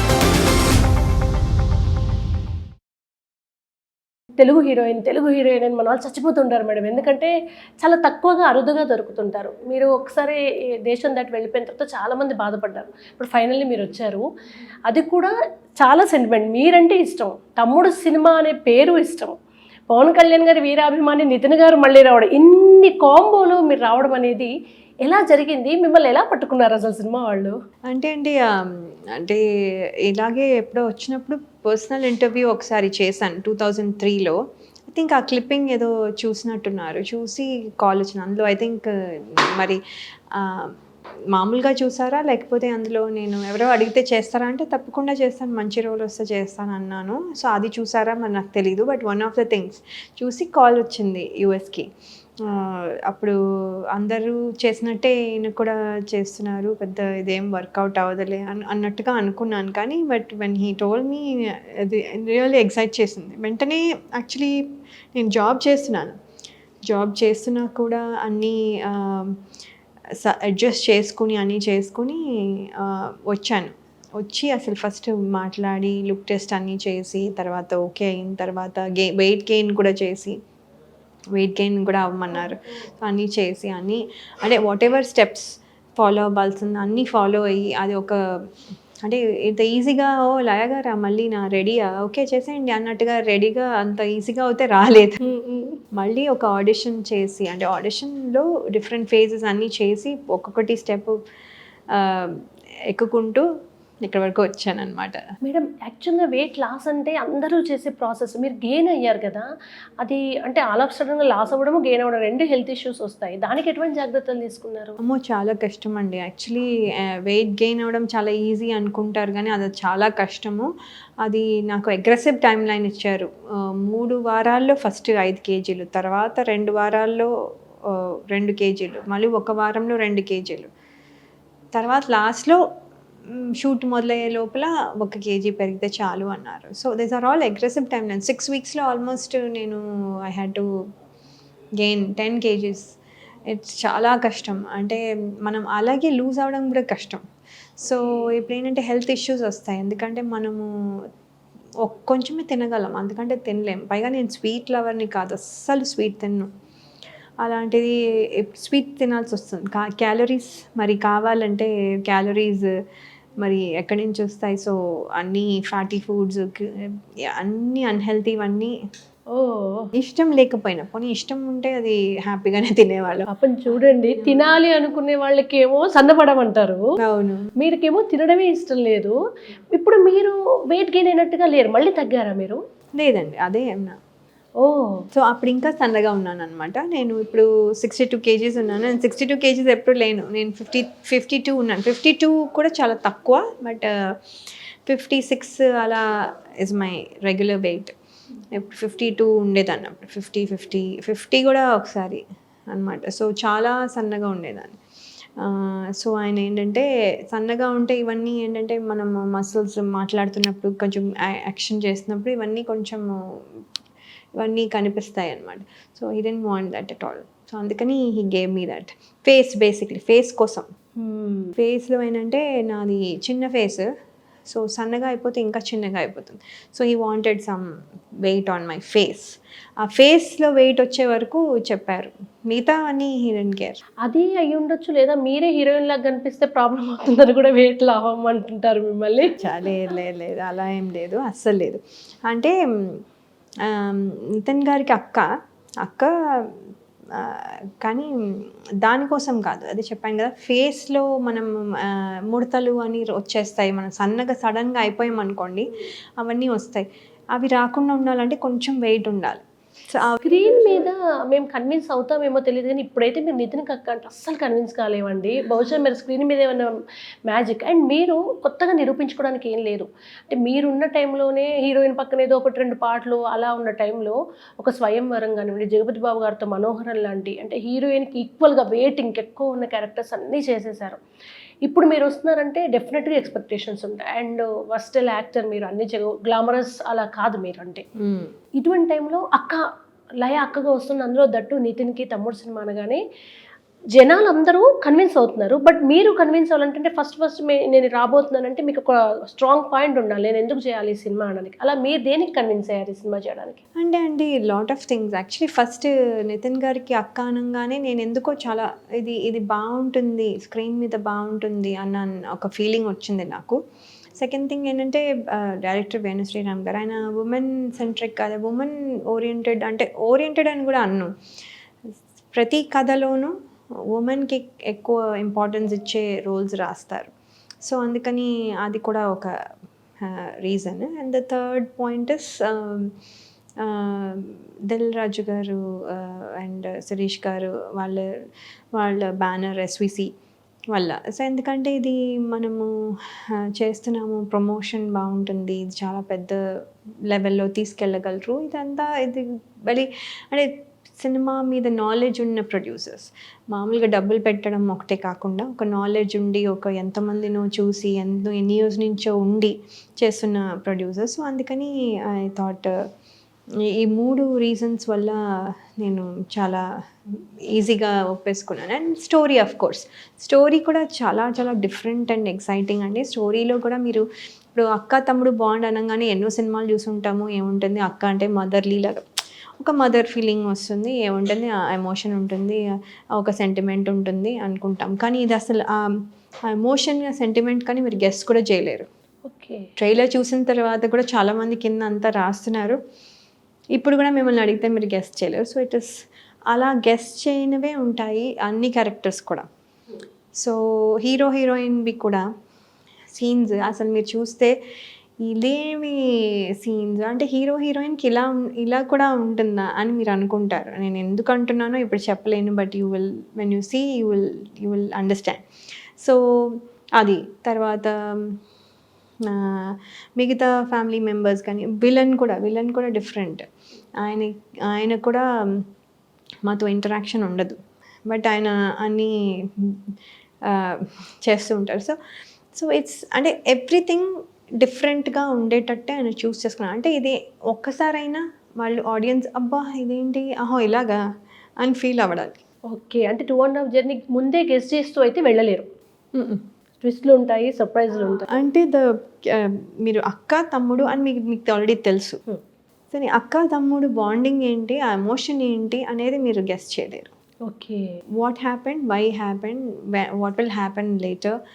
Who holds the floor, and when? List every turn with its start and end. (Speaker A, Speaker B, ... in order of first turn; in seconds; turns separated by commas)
Speaker A: 4.3-14.3, Speaker A: 14.8-19.4, Speaker A: 19.9-24.5, Speaker A: 25.0-27.5, Speaker B: 27.9-29.4, Speaker B: 30.1-34.4, Speaker B: 34.9-39.8, Speaker B: 40.3-40.7, Speaker B: 41.3-51.9, Speaker B: 52.4-53.4, Speaker B: 53.9-64.6, Speaker B: 65.1-66.2, Speaker B: 66.9-69.4, Speaker B: 70.2-80.3, Speaker B: 81.3-88.5, Speaker B: 89.0-95.2, Speaker A: 95.3-95.7, Speaker B: 95.9-101.2, Speaker B: 101.9-103.5, Speaker B: 104.0-105.2, Speaker A: 105.4-109.5, Speaker A: 110.0-115.0, Speaker B: 115.0-120.7, Speaker B: 121.2-127.3, Speaker B: 127.8-130.7, Speaker B: 131.7-132.6, Speaker B: 133.3-140.7, Speaker B: 141.8-142.9, Speaker B: 143.5-147.2, Speaker B: 147.8-150.7, Speaker B: 151.8-156.5, Speaker B: 157.4-162.7, Speaker B: 163.4-168.7, Speaker A: 169.3-169.9, Speaker B: 169.9-173.3, Speaker A: 173.3-176.8, Speaker B: 174.2-174.5, Speaker B: 177.0-177.5, Speaker A: 177.6-179.2, Speaker A: 179.7-182.6, Speaker B: 183.0-184.0, Speaker A: 184.6-185.0, Speaker B: 185.1-194.2, Speaker B: 194.9-197.9, Speaker B: 198.5-204.8, Speaker B: 205.4-213.1, Speaker B: 214.4-220.7, Speaker A: 221.0-221.5, Speaker B: 221.6-223.9, Speaker B: 224.5-227.7, Speaker B: 228.2-233.8, Speaker A: 234.0-239.3, Speaker B: 239.4-243.0, Speaker B: 243.7-245.2, Speaker B: 245.8-246.6, Speaker B: 247.2-260.2, Speaker A: 260.2-266.7, Speaker A: 267.3-281.0, Speaker A: 281.6-287.8, Speaker B: 288.0-288.3, Speaker A: 288.6-289.6, Speaker A: 290.2-293.0, Speaker A: 293.9-303.6, Speaker B: 303.8-313.6, Speaker B: 314.2-321.1, Speaker B: 322.3-323.3, Speaker B: 323.9-327.1, Speaker B: 327.6-329.3, Speaker B: 330.0-332.9, Speaker B: 333.6-338.1, Speaker B: 338.8-340.1, Speaker B: 340.7-342.7, Speaker B: 343.4-346.4, Speaker B: 347.1-362.7, Speaker B: 363.7-365.2, Speaker B: 365.8-379.0, Speaker B: 379.6-388.9, Speaker A: 389.2-389.7, Speaker B: 389.8-392.8, Speaker B: 393.8-399.4, Speaker B: 400.4-402.2, Speaker B: 403.1-404.5, Speaker B: 405.2-406.0, Speaker B: 406.6-415.4, Speaker B: 416.0-418.4, Speaker B: 419.3-423.4, Speaker B: 424.0-425.7, Speaker B: 426.4-429.9, Speaker B: 430.4-432.0, Speaker B: 432.5-441.0, Speaker B: 441.6-442.4, Speaker A: 442.7-445.7, Speaker B: 446.1-446.4, Speaker A: 446.8-448.3, Speaker B: 448.3-452.2, Speaker B: 452.9-457.1, Speaker A: 457.5-457.8, Speaker B: 458.2-461.4